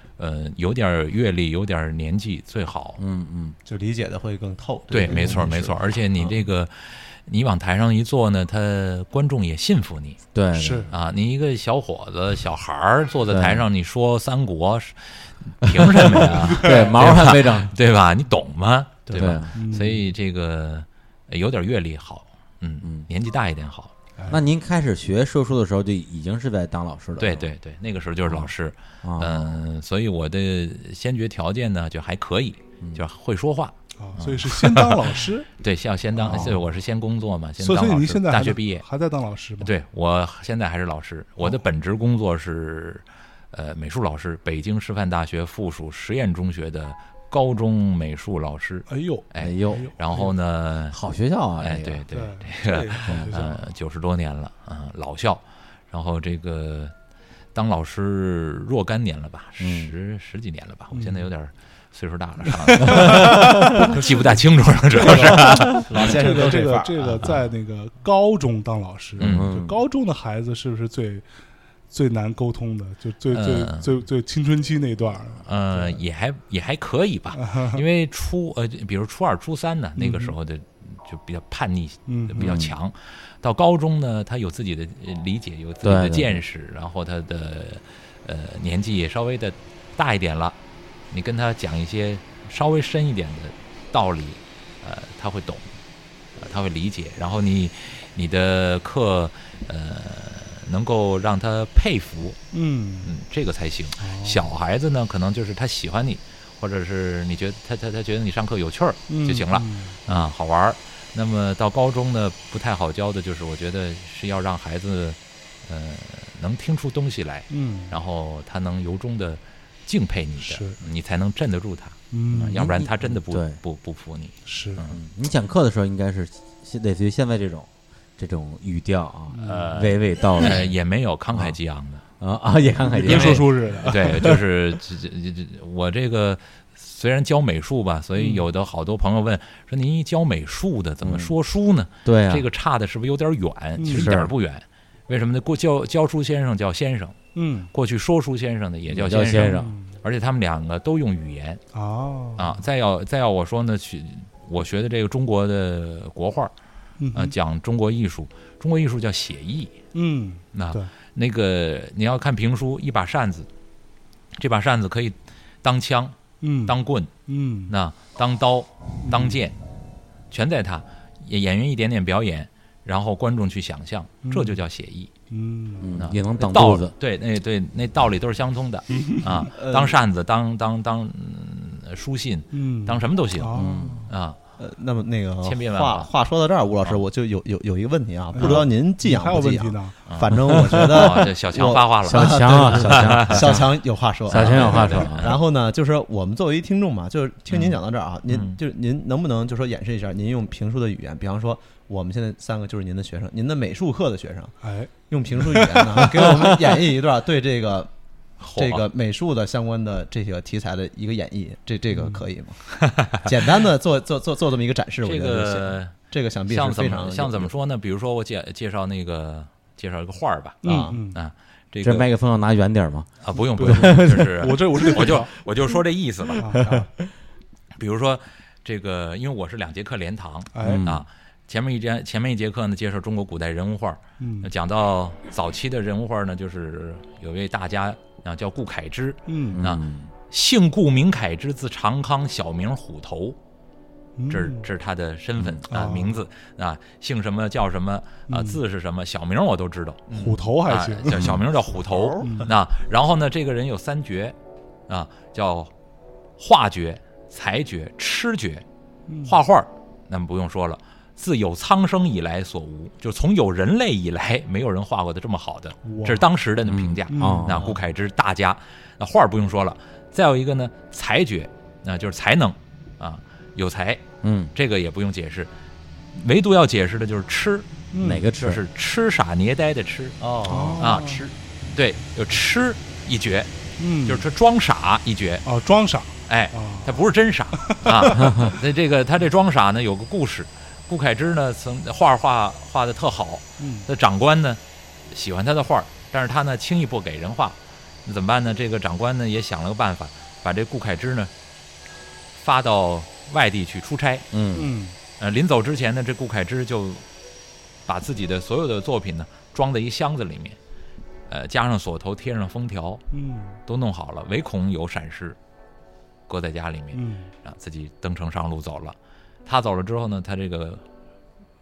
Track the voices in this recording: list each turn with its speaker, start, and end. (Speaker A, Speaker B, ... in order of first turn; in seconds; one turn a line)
Speaker A: 0.2-3.0
Speaker B: 3.0-3.5
Speaker C: 3.6-6.3
Speaker A: 4.9-10.2
Speaker B: 10.3-10.9
Speaker D: 10.5-10.9
Speaker A: 10.9-23.9
Speaker B: 13.3-13.6
Speaker B: 15.6-17.7
Speaker D: 16.1-17.3
Speaker B: 19.1-19.5
Speaker D: 19.5-20.0
Speaker B: 22.8-23.1
Speaker B: 24.3-27.5
Speaker A: 27.2-38.8
Speaker B: 28.2-28.5
Speaker B: 29.0-29.6
Speaker D: 34.0-35.5
Speaker D: 36.1-36.6
Speaker D: 37.6-39.7
Speaker A: 39.6-51.0
Speaker D: 48.9-50.3
Speaker B: 49.4-49.9
Speaker B: 50.9-52.0
Speaker A: 51.6-56.9
Speaker D: 52.1-53.6
Speaker A: 57.5-66.1
Speaker B: 59.6-59.9
Speaker D: 60.9-61.3
Speaker D: 62.5-71.2
Speaker B: 63.1-63.5
Speaker C: 65.0-67.2
Speaker A: 69.2-69.5
Speaker B: 69.2-69.8
Speaker D: 71.9-76.0
Speaker A: 73.3-73.9
Speaker A: 75.4-90.5
Speaker D: 77.3-77.8
Speaker D: 80.0-80.3
Speaker D: 82.1-82.6
Speaker B: 82.4-82.7
Speaker B: 85.8-86.4
Speaker A: 91.1-95.7
Speaker A: 96.4-102.4
Speaker D: 102.5-103.1
Speaker A: 103.0-125.0
Speaker D: 104.0-104.5
Speaker D: 109.1-110.0
Speaker D: 117.5-118.0
Speaker D: 120.4-120.8
Speaker D: 122.1-122.6
Speaker B: 122.5-123.6
Speaker D: 124.5-124.8
Speaker B: 124.9-130.7
Speaker D: 129.3-129.7
Speaker A: 129.4-132.0
Speaker B: 132.2-134.4
Speaker D: 132.8-134.4
Speaker A: 133.1-147.2
Speaker D: 138.2-138.4
Speaker B: 141.0-141.3
Speaker B: 142.0-142.4
Speaker D: 143.8-144.2
Speaker B: 143.8-144.3
Speaker D: 147.3-147.7
Speaker A: 147.7-151.6
Speaker B: 148.9-149.7
Speaker D: 149.3-149.9
Speaker D: 151.7-152.6
Speaker A: 152.4-156.5
Speaker D: 157.0-157.3
Speaker A: 157.1-159.8
Speaker D: 159.9-160.9
Speaker A: 160.5-163.5
Speaker A: 164.4-167.1
Speaker D: 166.4-167.7
Speaker A: 167.7-169.6
Speaker D: 169.0-169.4
Speaker A: 170.3-175.1
Speaker D: 174.2-174.6
Speaker D: 175.3-175.9
Speaker B: 175.8-176.9
Speaker A: 176.0-183.5
Speaker D: 179.0-179.5
Speaker C: 179.5-180.0
Speaker D: 182.5-183.9
Speaker B: 183.5-184.1
Speaker A: 184.1-184.4
Speaker C: 184.6-204.5
Speaker A: 185.4-186.1
Speaker D: 188.3-189.9
Speaker A: 190.1-193.6
Speaker B: 192.0-193.7
Speaker B: 194.2-195.4
Speaker A: 194.3-195.4
Speaker D: 194.7-195.0
Speaker A: 197.5-198.6
Speaker D: 204.6-206.2
Speaker C: 205.1-207.9
Speaker A: 208.4-208.9
Speaker C: 208.5-212.6
Speaker D: 211.9-212.2
Speaker A: 212.8-213.2
Speaker C: 213.2-217.5
Speaker A: 215.0-215.9
Speaker A: 216.5-222.1
Speaker D: 220.6-221.2
Speaker C: 220.6-221.0
Speaker B: 221.8-225.1
Speaker A: 223.2-226.5
Speaker D: 223.6-225.3
Speaker D: 226.4-226.9
Speaker B: 226.4-226.9
Speaker A: 227.8-243.4
Speaker D: 230.5-230.8
Speaker B: 230.6-231.0
Speaker D: 234.2-234.5
Speaker D: 239.3-239.6
Speaker B: 239.5-240.1
Speaker D: 244.2-244.7
Speaker A: 244.3-250.0
Speaker D: 245.7-246.2
Speaker D: 248.3-248.6
Speaker C: 250.1-250.4
Speaker D: 250.2-251.4
Speaker A: 250.7-254.3
Speaker C: 251.7-252.5
Speaker D: 252.2-252.5
Speaker A: 254.9-255.7
Speaker A: 256.4-258.6
Speaker D: 259.1-259.4
Speaker A: 259.2-275.5
Speaker D: 265.8-266.2
Speaker B: 266.7-267.8
Speaker D: 267.1-267.7
Speaker B: 274.2-274.5
Speaker A: 276.1-277.7
Speaker D: 277.9-278.2
Speaker B: 278.0-278.6
Speaker A: 278.3-280.2
Speaker C: 280.2-281.3
Speaker D: 280.5-281.2
Speaker A: 280.8-281.1
Speaker A: 281.7-283.5
Speaker D: 283.8-284.2
Speaker A: 284.0-285.4
Speaker D: 285.4-287.0
Speaker A: 286.3-294.6
Speaker D: 287.5-288.5
Speaker B: 288.1-288.5
Speaker D: 293.6-293.9
Speaker A: 295.1-301.3
Speaker A: 302.4-304.2
Speaker B: 304.3-304.7
Speaker D: 304.5-304.9
Speaker A: 305.2-307.0
Speaker A: 307.9-310.6
Speaker A: 311.3-313.0
Speaker D: 313.1-313.6
Speaker A: 313.6-315.4
Speaker A: 316.3-320.8
Speaker D: 316.9-317.3